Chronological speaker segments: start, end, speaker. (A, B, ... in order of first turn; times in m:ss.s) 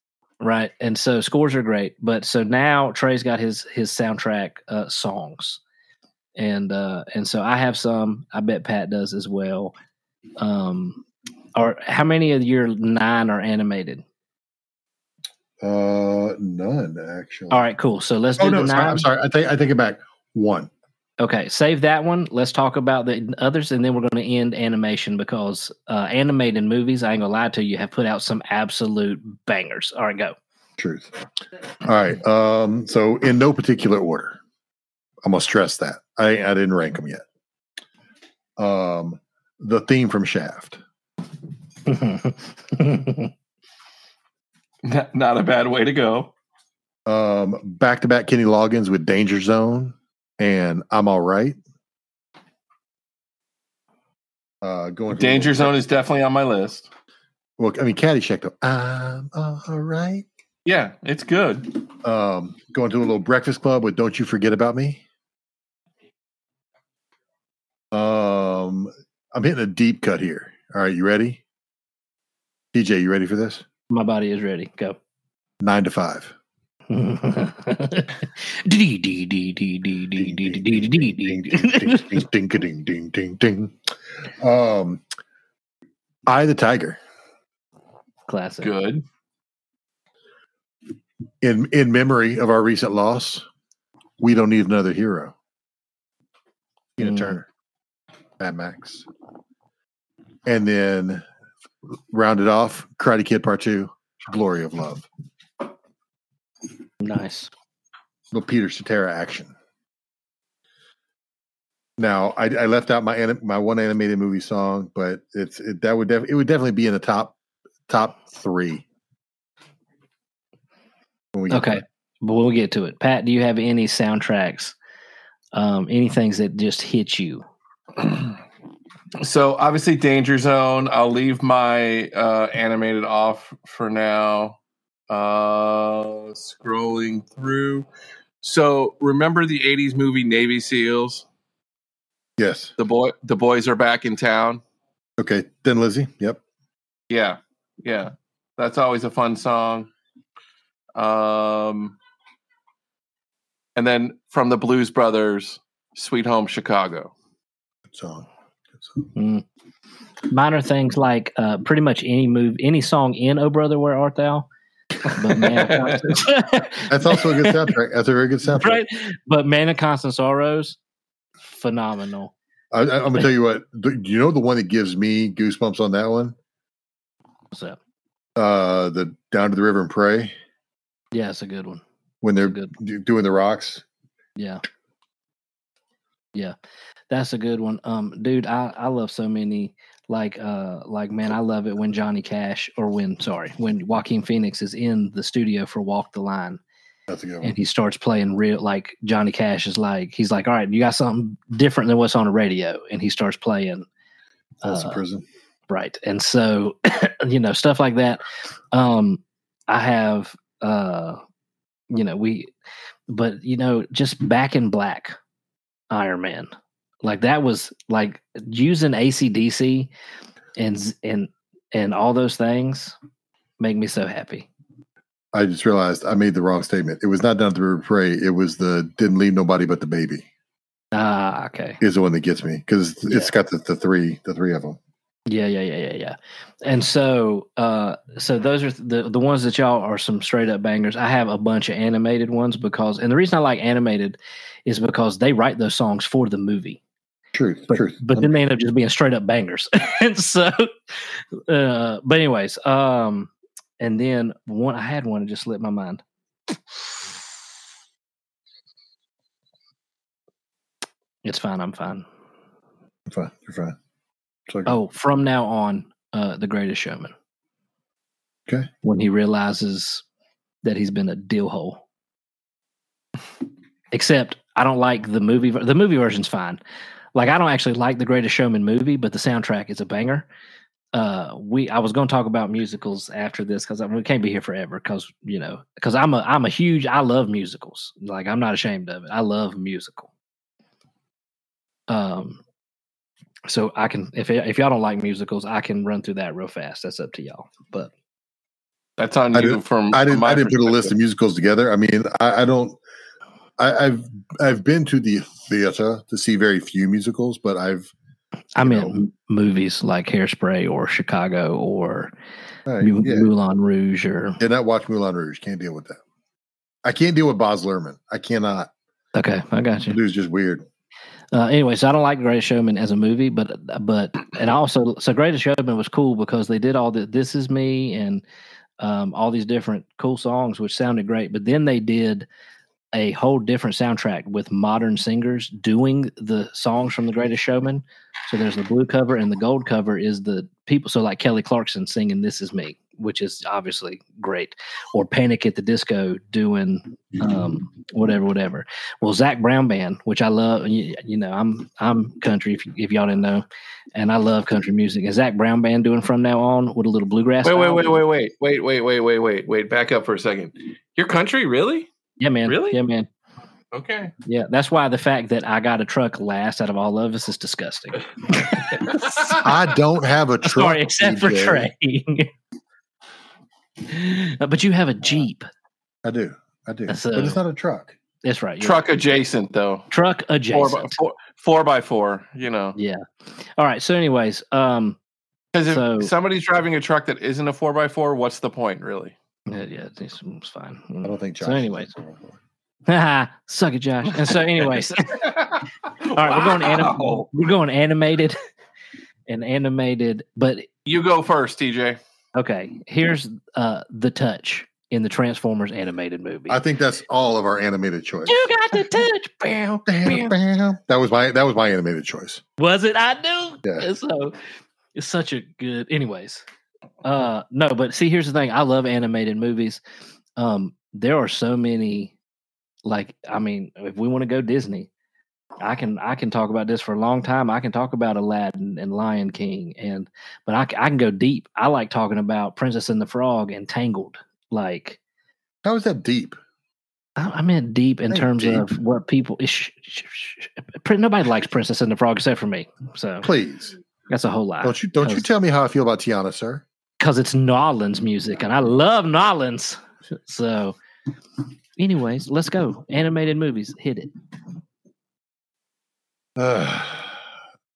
0:00.4-0:05.6 A
0:06.4-0:09.7 A
0:10.4-0:11.0 A
0:11.5-0:14.0 A
0:15.6-0:17.6 B
0:17.5-0:19.0 A
0:18.4-0:20.7 B
0:21.2-0:30.4 A
0:30.8-0:31.1 B
0:31.8-0:34.4 B
0:35.2-0:37.2 B
0:38.6-0:40.8 B
0:41.8-0:43.3 A
0:44.8-0:46.3 C
0:47.1-0:51.6 B
0:54.6-0:55.7 B
0:55.1-0:56.9 C
0:57.6-1:00.3 B
1:00.6-1:01.8 C
1:02.0-1:05.0 B
1:07.9-1:11.4 B
1:12.7-1:13.6 B
1:13.9-1:15.0 A
1:15.6-1:16.3 B
1:16.9-1:22.2 A
1:20.2-1:25.0 B
1:26.3-1:27.0 B
1:28.3-1:28.7 A
1:28.6-1:29.0 C
1:31.4-1:33.4 B
1:34.2-1:35.3 B
1:37.0-1:37.4 B
1:37.0-1:37.4 A
1:38.4-1:39.0 B
1:40.4-1:41.2 B
1:41.9-1:45.0 B
1:47.0-1:47.5 A
1:48.3-1:49.5 B
1:52.0-1:57.4 B
1:57.9-1:58.8 B
2:01.3-2:01.8 B
2:01.5-2:04.7 A
2:05.5-2:07.4 A
2:08.0-2:08.3 C
2:09.2-2:14.6 C
2:15.1-2:17.8 C
2:18.4-2:21.2 C
2:22.4-2:22.7 B
2:22.8-2:24.6 C
2:25.2-2:26.4 B
2:27.1-2:29.9 C
2:31.0-2:32.0 C
2:33.8-2:37.1 C
2:37.9-2:38.3 B
2:38.8-2:39.0 B
2:39.1-2:39.4 A
2:40.3-2:44.5 A
2:45.0-2:47.7 A
2:45.4-2:46.0 C
2:46.9-2:48.8 B
2:48.6-2:50.8 A
2:51.4-2:52.3 A
2:52.7-2:56.3 B
2:57.5-2:57.8 A
2:58.4-3:00.3 B
3:01.1-3:01.8 A
3:02.2-3:03.8 B
3:02.4-3:02.7 A
3:04.4-3:04.6 A
3:07.1-3:16.6 A
3:17.1-3:17.6 B
3:17.4-3:23.8 A
3:24.6-3:25.2 B
3:24.6-3:25.0 A
3:25.7-3:31.2 A
3:31.9-3:32.5 A
3:33.1-3:35.2 A
3:35.9-3:36.5 A
3:37.0-3:39.9 A
3:40.6-3:42.9 A
3:43.6-3:44.5 A
3:45.3-3:50.2 B
3:50.9-3:51.8 A
3:51.8-3:54.8 B
3:53.0-3:53.3 A
3:55.3-4:06.8 A
4:07.3-4:08.3 B
4:07.7-4:16.5 A
4:21.2-4:22.1 A
4:23.1-4:23.7 B
4:24.6-4:27.1 A
4:28.8-4:30.0 A
4:30.6-4:31.8 A
4:33.9-4:36.6 A
4:37.1-4:40.2 A
4:40.9-4:50.1 A
4:51.9-4:52.4 A
4:53.5-4:57.9 A
4:59.0-5:00.9 C
4:59.3-5:02.8 B
5:03.6-5:07.9 B
5:08.6-5:12.1 A
5:08.6-5:09.0 B
5:12.7-5:13.3 B
5:12.8-5:14.4 A
5:14.4-5:16.0 B
5:16.8-5:18.7 B
5:19.1-5:20.0 A
5:19.9-5:20.6 B
5:21.3-5:28.2 A
5:28.8-5:32.3 A
5:32.9-5:58.0 A
5:57.4-6:01.9 C
6:02.2-6:03.1 A
6:02.5-6:02.8 C
6:03.7-6:04.1 C
6:04.2-6:09.3 A
6:09.4-6:11.7 B
6:10.4-6:12.3 A
6:13.8-6:15.5 A
6:16.0-6:18.0 B
6:16.9-6:17.4 A
6:18.2-6:18.8 A
6:18.6-6:19.9 C
6:19.9-6:20.9 A
6:20.5-6:22.8 C
6:22.8-6:23.0 A
6:23.6-6:25.0 A
6:25.5-6:29.1 C
6:25.7-6:26.1 A
6:29.5-6:31.9 A
6:31.0-6:32.4 B
6:32.9-6:35.3 A
6:35.3-6:37.3 C
6:36.0-6:38.4 A
6:39.3-6:40.7 A
6:40.8-6:42.0 C
6:42.3-6:46.6 A
6:46.5-6:48.5 B
6:48.3-6:50.3 A
6:49.9-6:52.4 B
6:52.6-6:54.4 A
6:54.9-6:56.4 A
6:57.0-6:59.8 A
7:00.4-7:02.1 A
7:02.8-7:04.9 A
7:05.6-7:15.0 A
7:15.6-7:16.4 B
7:17.2-7:23.3 A
7:18.1-7:18.7 B
7:23.2-7:23.7 B
7:24.1-7:25.2 A
7:24.6-7:26.6 B
7:27.0-7:30.8 A
7:31.8-7:34.1 A
7:36.4-7:37.2 B